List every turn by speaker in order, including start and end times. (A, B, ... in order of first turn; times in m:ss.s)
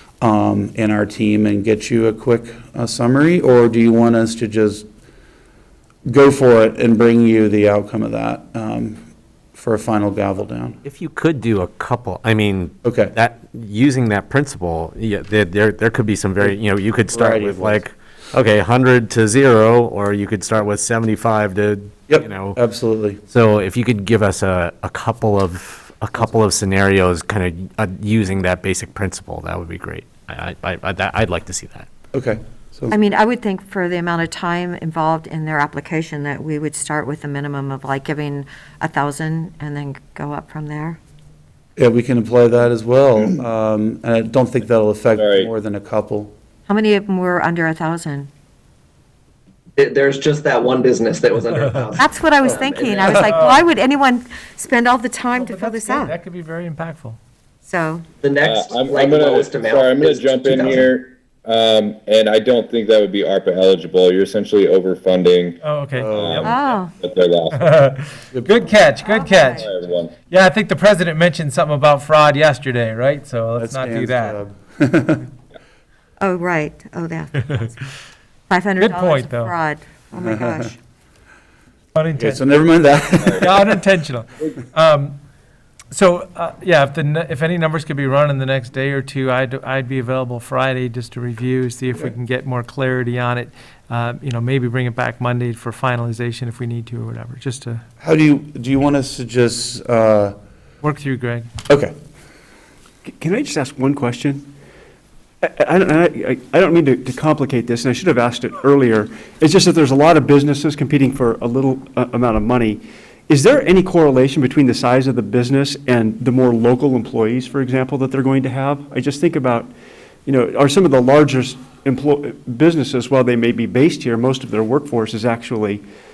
0:00.2-0:04.9 A
0:06.1-0:09.0 A
0:09.5-0:10.8 A
0:10.8-0:22.6 B
0:12.8-0:13.1 A
0:17.1-0:17.9 A
0:22.1-0:23.2 A
0:23.3-0:31.9 B
0:32.1-0:33.0 A
0:32.9-0:41.0 C
0:41.8-0:46.3 A
0:45.2-0:45.5 D
0:46.7-0:48.3 C
0:49.8-0:53.3 E
0:51.6-0:51.9 F
0:52.0-0:56.2 C
0:53.2-0:53.6 F
0:55.4-0:57.2 F
0:57.6-0:58.0 C
0:58.2-1:00.9 E
0:58.4-1:05.6 D
1:05.6-1:06.6 F
1:05.9-1:06.5 A
1:06.2-1:07.7 D
1:06.4-1:06.9 C
1:07.6-1:09.7 F
1:08.3-1:08.7 A
1:09.0-1:09.6 C
1:09.6-1:10.1 D
1:10.3-1:14.4 F
1:13.6-1:15.3 A
1:16.2-1:17.8 C
1:18.5-1:20.8 C
1:18.8-1:19.5 F
1:20.2-1:20.6 A
1:22.0-1:22.5 F
1:22.2-1:23.8 A
1:23.3-1:25.2 F
1:25.9-1:37.8 F
1:38.0-1:40.4 A
1:40.8-1:41.5 F
1:41.7-1:41.9 A
1:43.0-1:44.5 G
1:45.4-1:59.7 G
2:00.3-2:05.8 G